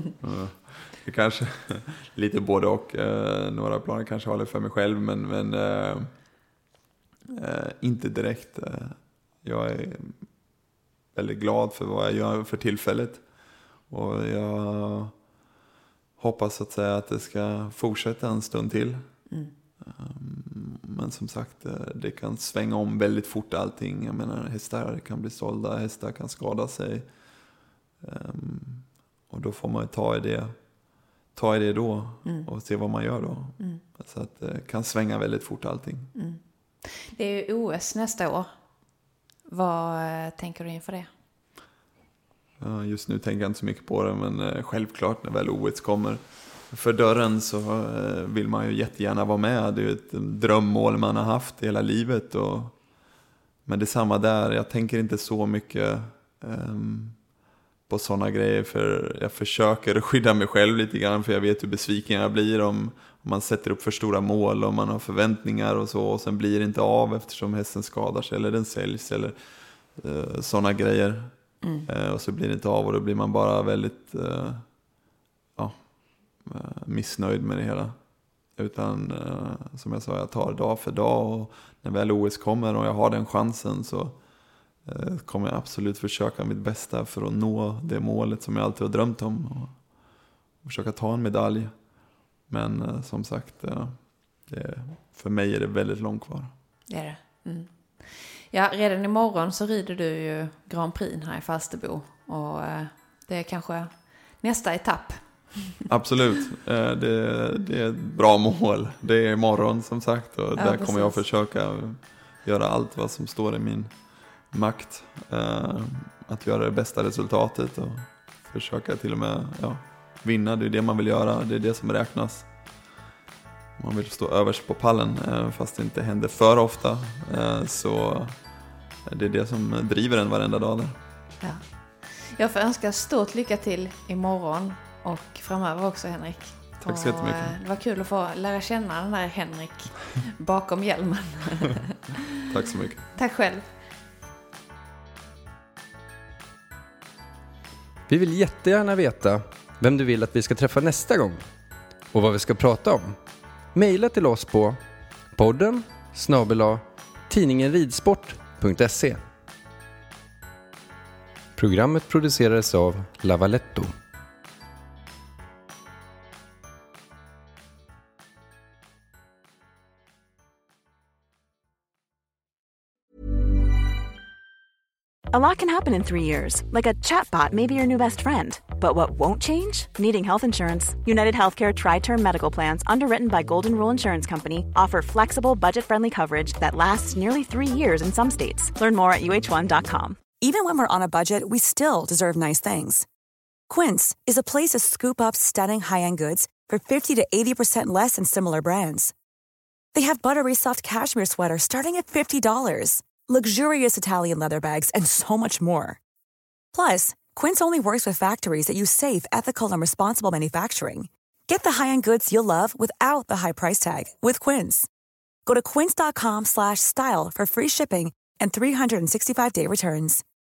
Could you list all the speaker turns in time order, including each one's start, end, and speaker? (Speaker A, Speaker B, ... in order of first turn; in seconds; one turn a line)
Speaker A: 0.2-6.1
Speaker A: 7.3-10.3
Speaker A: 11.1-13.3
Speaker A: 13.9-15.1
Speaker A: 16.2-19.2
Speaker A: 19.8-27.1
Speaker A: 28.0-30.6
Speaker A: 31.3-36.1
Speaker B: 32.2-32.5
Speaker B: 36.1-38.5
Speaker B: 39.5-41.1
Speaker A: 42.6-52.8
Speaker A: 53.6-57.2
Speaker A: 57.9-74.7
Speaker B: 71.6-71.9
Speaker A: 75.6-78.0
Speaker A: 78.5-84.2
Speaker A: 84.8-90.0
Speaker A: 90.6-91.9
Speaker A: 92.5-96.5
Speaker B: 96.9-105.8
Speaker A: 105.9-122.5
Speaker B: 110.6-111.2
Speaker A: 123.8-128.4
Speaker A: 129.1-131.0
Speaker B: 131.4-142.2
Speaker A: 136.8-137.6
Speaker A: 142.5-143.1
Speaker B: 143.2-143.6
Speaker C: 148.1-151.4
Speaker C: 152.1-153.2
Speaker C: 153.7-154.8
Speaker C: 155.3-159.2
Speaker C: 161.6-163.9
Speaker D: 175.3-190.2
Speaker E: 190.3-193.1
Speaker E: 193.7-199.1
Speaker E: 199.9-206.0
Speaker E: 206.7-214.9
Speaker E: 215.5-220.2